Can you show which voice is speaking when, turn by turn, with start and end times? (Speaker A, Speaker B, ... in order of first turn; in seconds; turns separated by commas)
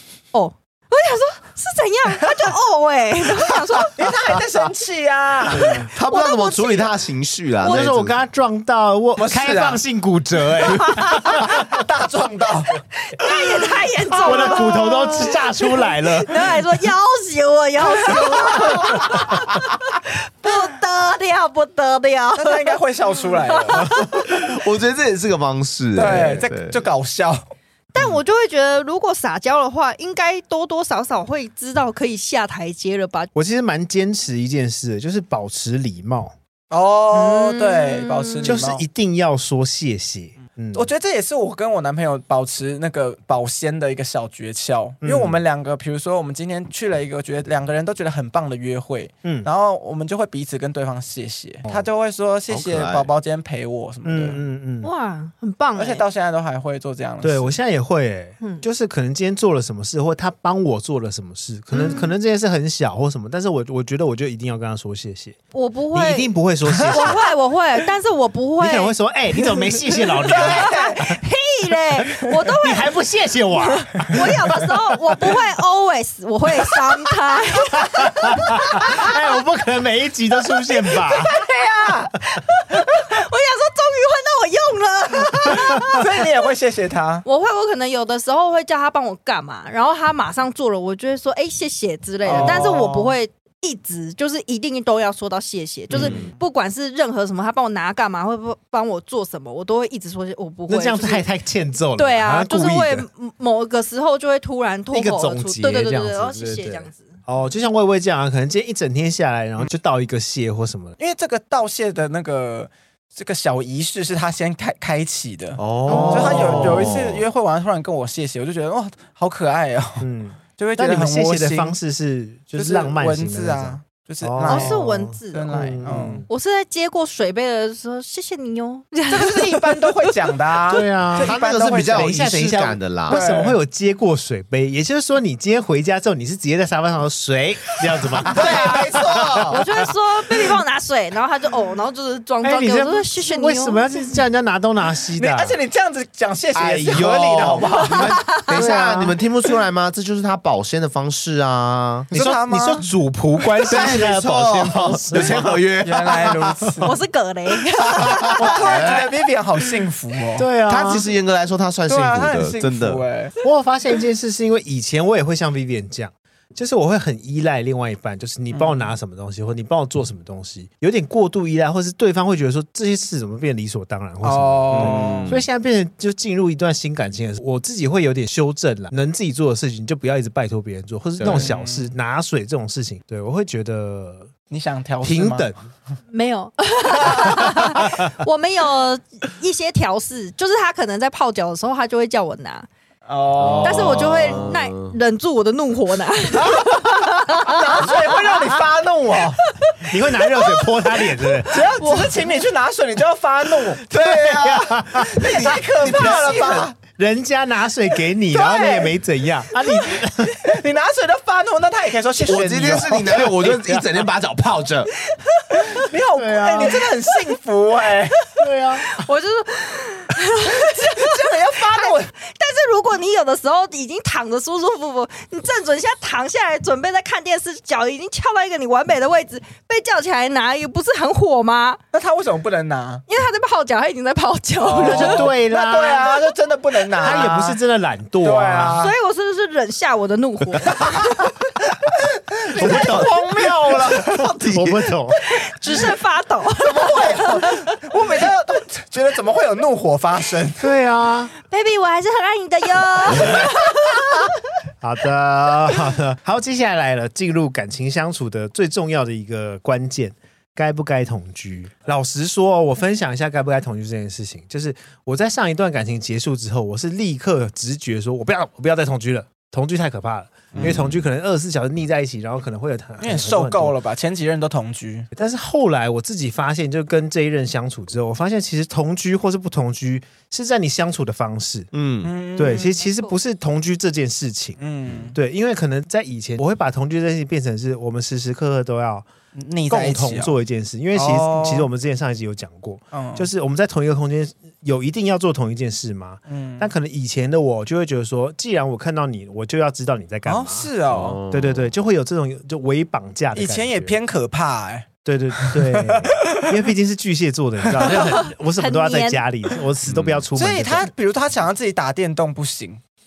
Speaker A: 0.3-4.1, Speaker B: 3.9-5.8, Speaker C: 5.5-8.2, Speaker A: 5.9-6.9, Speaker D: 7.6-11.8, Speaker B: 9.2-9.8, Speaker A: 10.7-11.2, Speaker B: 11.1-12.7, Speaker A: 12.9-24.2, Speaker D: 14.2-16.4, Speaker B: 14.2-14.7, Speaker B: 17.8-19.1, Speaker B: 22.4-24.0, Speaker C: 24.1-26.8, Speaker B: 25.9-27.5, Speaker A: 27.9-33.3, Speaker D: 33.3-36.3, Speaker B: 36.7-38.8, Speaker A: 37.1-38.6, Speaker D: 38.4-40.9, Speaker B: 40.7-54.4, Speaker D: 45.0-45.4, Speaker D: 49.2-49.5, Speaker C: 52.5-53.1, Speaker D: 54.0-54.9, Speaker A: 54.8-56.0, Speaker B: 55.8-57.6, Speaker D: 57.2-65.4, Speaker B: 61.7-62.0, Speaker A: 65.5-66.3, Speaker D: 65.9-67.2, Speaker B: 66.7-67.2, Speaker A: 66.9-72.9, Speaker D: 68.6-71.2, Speaker B: 70.2-71.1, Speaker D: 72.6-75.3, Speaker A: 73.6-79.2, Speaker D: 77.7-81.3, Speaker A: 80.9-81.5, Speaker B: 81.3-82.1, Speaker A: 82.2-86.3, Speaker D: 85.5-85.8, Speaker B: 85.8-87.2, Speaker A: 87.2-101.2, Speaker B: 92.2-93.1, Speaker D: 92.3-92.8, Speaker C: 95.9-96.3, Speaker D: 100.7-103.1, Speaker A: 102.0-107.1, Speaker D: 104.9-110.9, Speaker B: 111.0-121.8, Speaker C: 115.6-117.2, Speaker D: 115.8-117.0, Speaker D: 120.0-126.3, Speaker B: 122.5-124.8, Speaker A: 124.5-125.5, Speaker B: 125.3-126.2, Speaker A: 126.3-130.1, Speaker B: 129.1-132.3, Speaker D: 130.7-138.8, Speaker C: 131.2-133.2, Speaker B: 133.1-133.6, Speaker B: 138.2-139.6, Speaker C: 138.3-139.6, Speaker A: 139.4-144.2, Speaker D: 142.4-145.6, Speaker B: 145.2-148.8, Speaker C: 146.6-152.1, Speaker D: 146.9-149.1, Speaker A: 147.9-148.4, Speaker B: 152.1-152.8, Speaker D: 152.1-155.6, Speaker C: 153.7-156.8, Speaker B: 155.1-156.9, Speaker A: 156.8-159.1, Speaker C: 157.8-159.1, Speaker B: 158.3-160.5, Speaker D: 160.4-161.0, Speaker C: 160.7-163.0, Speaker B: 161.9-163.3, Speaker D: 163.4-184.3, Speaker B: 168.5-168.8, Speaker B: 174.2-175.3, Speaker C: 174.7-175.5, Speaker C: 181.2-181.5, Speaker B: 181.2-181.9, Speaker B: 184.5-185.5, Speaker D: 185.0-185.6, Speaker A: 186.1-192.7, Speaker D: 187.1-188.1, Speaker B: 193.1-194.5, Speaker C: 193.4-194.9, Speaker A: 193.6-198.6, Speaker B: 196.3-199.4, Speaker A: 199.4-202.4, Speaker D: 199.8-201.6, Speaker B: 201.5-204.5, Speaker C: 203.9-206.7, Speaker D: 204.2-210.4, Speaker B: 205.0-206.8, Speaker B: 208.3-208.9, Speaker B: 210.4-213.6, Speaker C: 212.2-214.9, Speaker D: 213.2-213.8, Speaker A: 215.0-215.8, Speaker B: 215.5-218.2, Speaker D: 216.2-216.9, Speaker D: 218.4-218.9, Speaker A: 218.9-231.8, Speaker B: 220.5-222.1, Speaker B: 231.9-233.0, Speaker A: 233.1-235.3, Speaker B: 234.6-237.6, Speaker D: 234.8-236.1, Speaker D: 237.0-238.8, Speaker B: 238.2-238.9, Speaker A: 238.8-241.3, Speaker B: 242.3-244.2, Speaker C: 242.5-244.9, Speaker D: 242.6-243.1, Speaker D: 243.9-245.2, Speaker A: 245.3-247.6, Speaker B: 246.6-250.7, Speaker D: 250.6-251.3, Speaker A: 251.5-254.3, Speaker D: 254.8-273.7, Speaker C: 270.5-271.0, Speaker B: 273.0-275.1, Speaker D: 275.1-281.7, Speaker C: 281.7-282.1, Speaker B: 282.0-282.8, Speaker D: 282.4-284.6, Speaker A: 282.8-283.1, Speaker B: 284.6-285.1, Speaker D: 285.1-289.1, Speaker B: 289.3-290.3, Speaker D: 289.7-300.7, Speaker B: 290.9-291.7, Speaker B: 292.9-293.3, Speaker B: 296.3-296.7, Speaker B: 300.2-301.2, Speaker C: 300.9-301.7, Speaker D: 301.3-304.0, Speaker B: 303.3-304.9, Speaker D: 305.0-310.9, Speaker B: 305.4-306.6, Speaker B: 307.7-308.0, Speaker A: 307.9-309.2, Speaker C: 309.9-310.2, Speaker B: 310.3-312.8